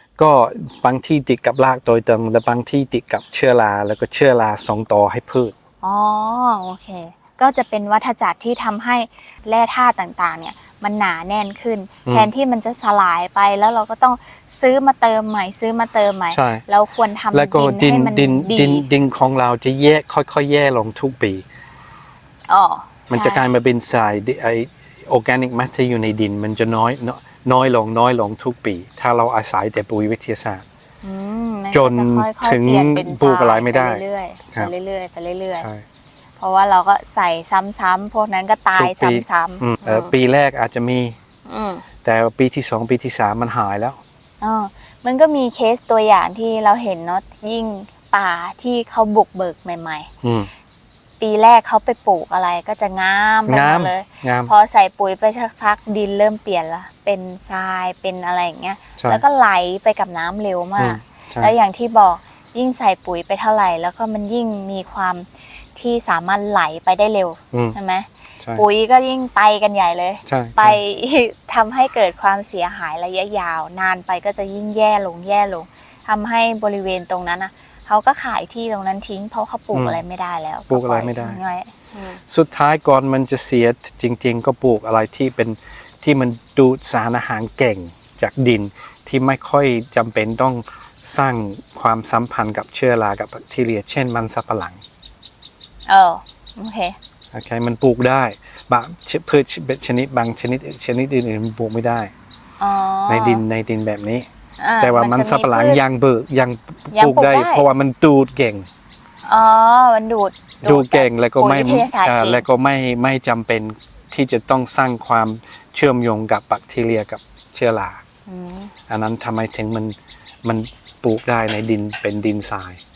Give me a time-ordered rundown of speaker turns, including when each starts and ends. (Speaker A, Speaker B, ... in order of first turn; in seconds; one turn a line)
Speaker A: 0.2-5.5
Speaker B: 5.8-18.9
Speaker A: 16.3-16.6
Speaker A: 17.3-21.4
Speaker B: 22.5-23.4
Speaker A: 23.1-30.6
Speaker B: 31.0-35.7
Speaker A: 31.7-34.7
Speaker A: 35.6-35.8
Speaker B: 36.4-40.1
Speaker A: 38.8-41.2
Speaker B: 41.5-41.9
Speaker A: 42.0-44.0
Speaker B: 44.4-50.1
Speaker A: 50.2-50.5
Speaker B: 51.2-82.2
Speaker A: 53.5-54.5
Speaker A: 59.0-59.2
Speaker A: 60.8-61.5
Speaker A: 67.5-67.8
Speaker A: 70.3-70.8
Speaker A: 79.7-80.0
Speaker A: 80.7-81.4
Speaker A: 82.3-94.8
Speaker B: 95.9-97.0
Speaker A: 97.3-102.1
Speaker B: 102.6-103.4
Speaker A: 103.1-104.3
Speaker B: 104.6-105.8
Speaker A: 104.8-108.7
Speaker B: 106.9-107.7
Speaker B: 109.2-112.4
Speaker A: 110.6-118.0
Speaker B: 118.3-118.7
Speaker A: 118.9-122.8